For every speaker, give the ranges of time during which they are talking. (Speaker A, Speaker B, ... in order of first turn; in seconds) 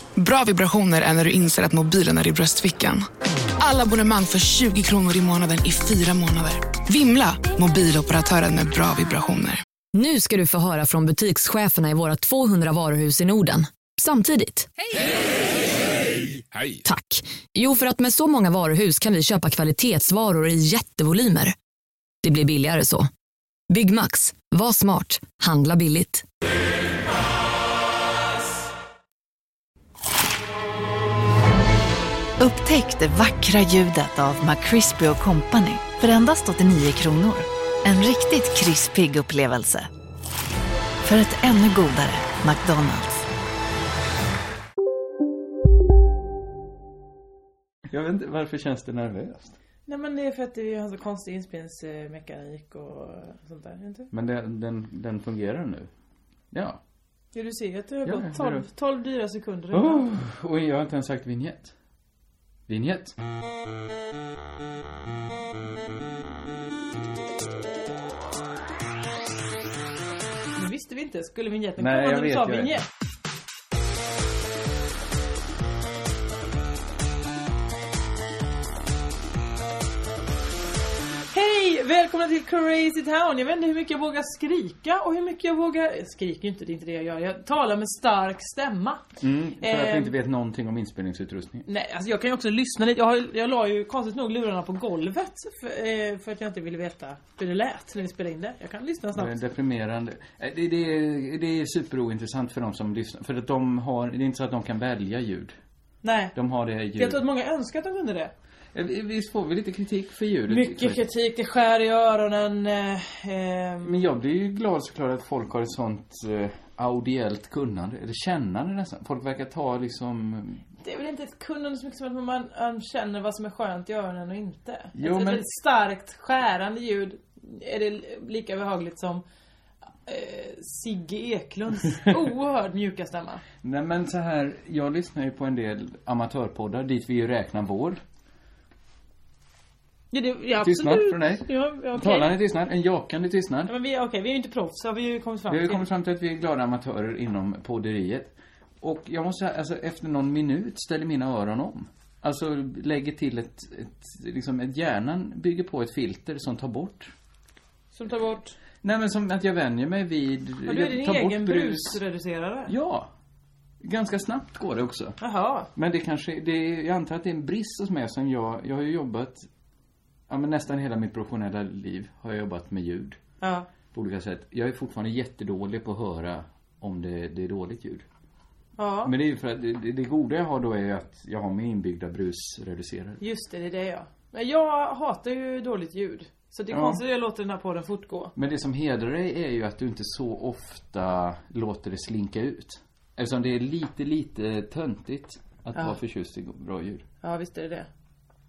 Speaker A: 0.2-3.1, 3.6-9.6
Speaker B: 9.9-14.7, 16.8-21.5, 22.2-23.1, 23.7-26.2
Speaker C: 32.4-39.9, 41.0-43.3
Speaker D: 47.9-49.6, 54.1-55.9, 56.5-56.8, 58.0-58.7, 59.7-61.7, 62.7-63.1, 71.8-72.8, 89.2-91.7, 99.1-105.6, 106.3-107.2, 108.7-111.0, 113.8-120.6, 124.9-125.5, 133.6-138.0, 140.6-143.7, 145.5-157.1, 158.8-162.0, 162.7-163.1, 163.8-165.2, 165.8-169.5, 170.3-173.2, 173.9-178.1, 179.0-183.2, 186.7-187.0, 188.3-197.1
Speaker E: 49.9-54.1, 57.3-60.1, 70.6-72.9, 81.3-89.0, 89.6-90.1, 91.7-99.3, 106.0-106.3, 107.0-108.3, 110.5-114.0, 120.8-129.2, 130.1-133.4, 140.1-142.4, 143.7-145.9, 157.9-158.6, 160.7-162.7, 165.2-165.7, 173.4-173.7, 178.8-179.1, 183.2-188.3, 197.2-197.9